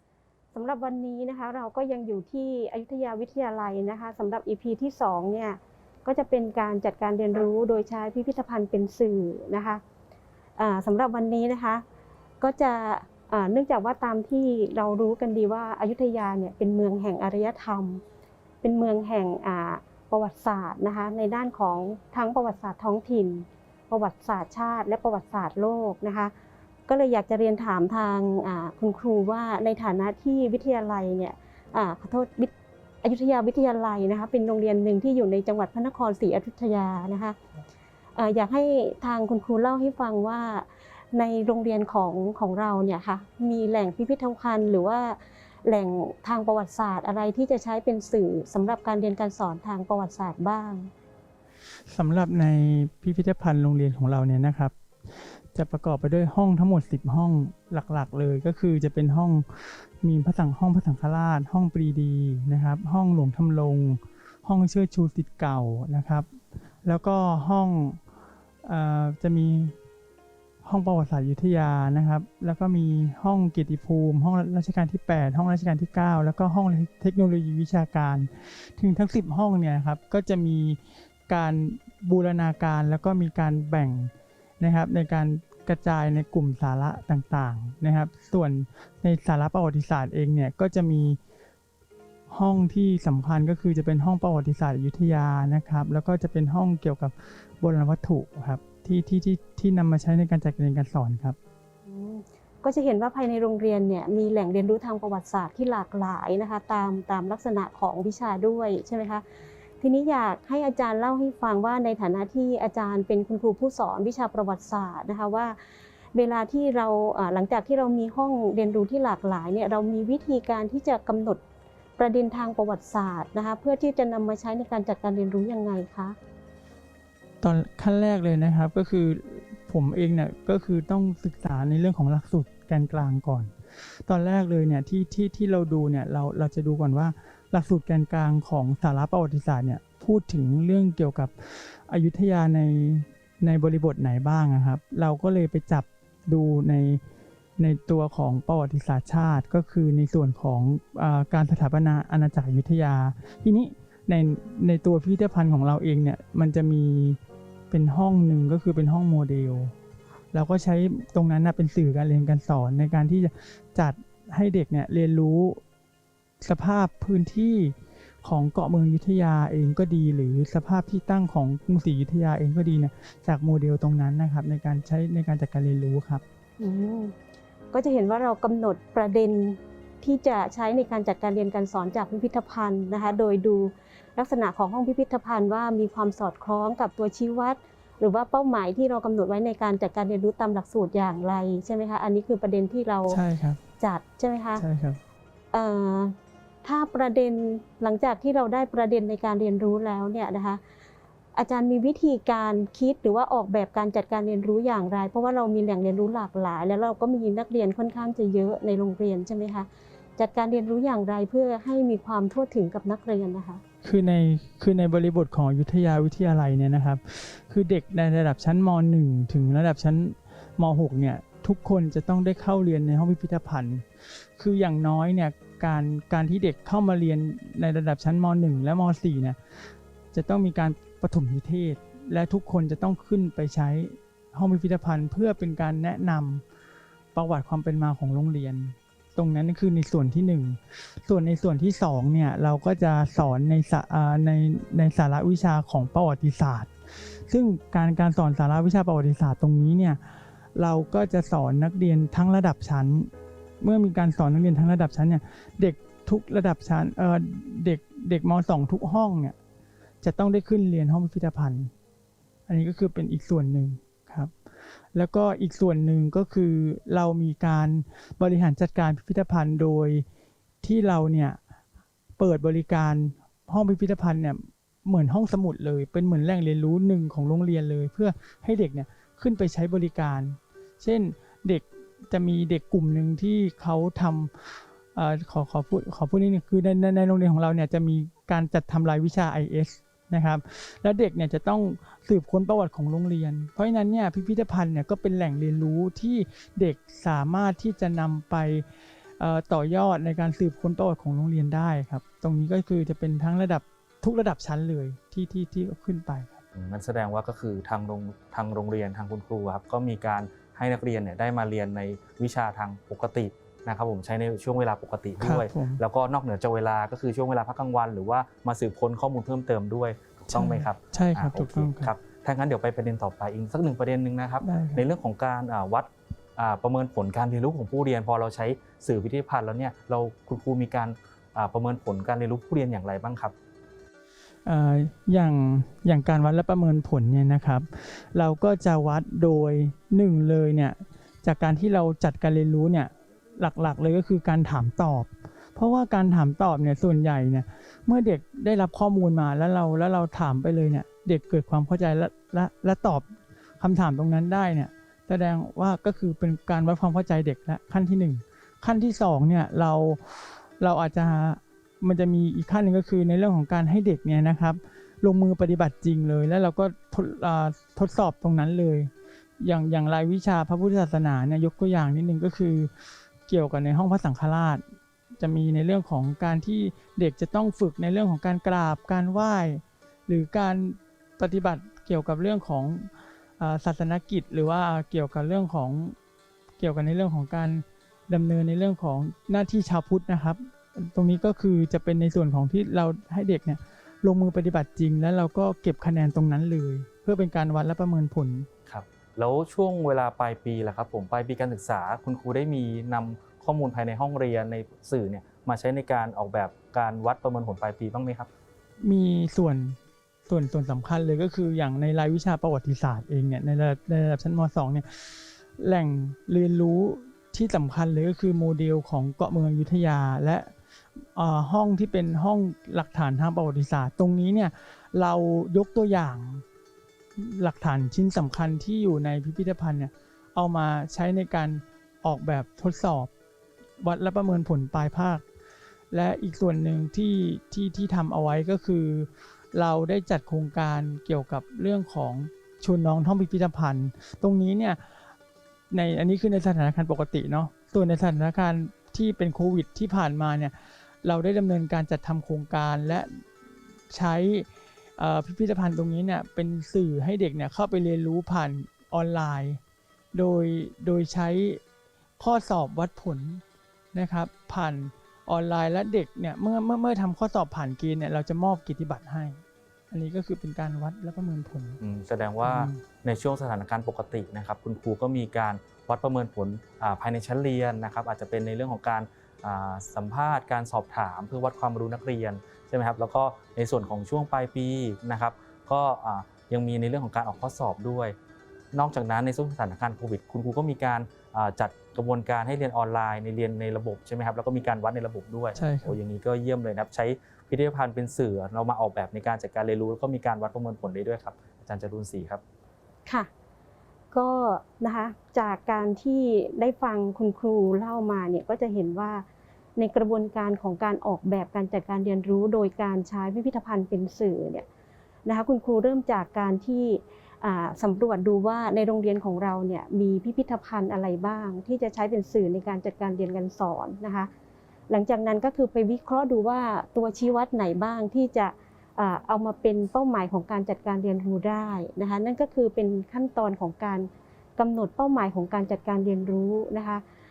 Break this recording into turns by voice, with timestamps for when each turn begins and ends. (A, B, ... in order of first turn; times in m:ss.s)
0:00.5-0:09.8 A
0:10.6-0:11.8 A
0:12.4-0:18.0 A
0:18.6-0:26.3 A
0:26.9-0:37.4 A
0:38.2-0:50.9 A
0:51.9-1:06.3 B
1:06.8-1:08.0 B
1:08.6-1:09.7 B
1:10.6-1:31.2 B
1:32.3-1:41.4 B
1:41.8-1:49.2 A
1:49.8-1:55.6 A
1:56.1-2:01.4 A
2:02.0-2:06.2 A
2:07.4-2:27.0 B
2:27.6-2:37.2 B
2:37.7-2:39.7 B
2:40.3-2:45.6 B
2:46.4-2:56.2 B
2:56.6-2:57.1 A
2:57.7-3:13.2 A
3:13.1-3:13.6 B
3:13.8-3:14.6 A
3:14.6-3:15.0 B
3:15.5-3:20.6 A
3:21.3-3:33.6 A
3:33.8-3:49.4 B
3:50.1-3:56.4 B
3:57.1-4:19.4 B
4:20.0-4:21.7 B
4:22.5-4:24.3 B
4:24.9-4:30.0 B
4:30.6-4:31.4 B
4:32.2-4:58.7 B
4:59.2-5:06.4 B
5:06.5-5:33.3 C
5:15.2-5:15.8 B
5:20.3-5:21.9 B
5:24.4-5:24.8 B
5:34.4-6:12.7 B
6:13.3-6:14.6 B
6:15.2-6:26.0 B
6:26.6-6:38.5 B
6:38.7-6:48.3 C
6:48.8-7:06.4 B
7:07.2-7:13.1 B
7:13.8-7:15.2 B
7:15.9-7:25.1 B
7:25.7-7:33.3 B
7:33.9-7:39.6 B
7:40.1-7:41.6 B
7:42.2-7:43.4 B
7:43.9-7:51.8 B
7:51.8-8:08.2 C
7:52.4-7:52.8 B
8:08.7-8:22.4 C
8:15.6-8:16.0 B
8:24.1-8:29.2 A
8:29.8-8:34.6 A
8:35.2-8:44.3 A
8:44.9-8:57.0 A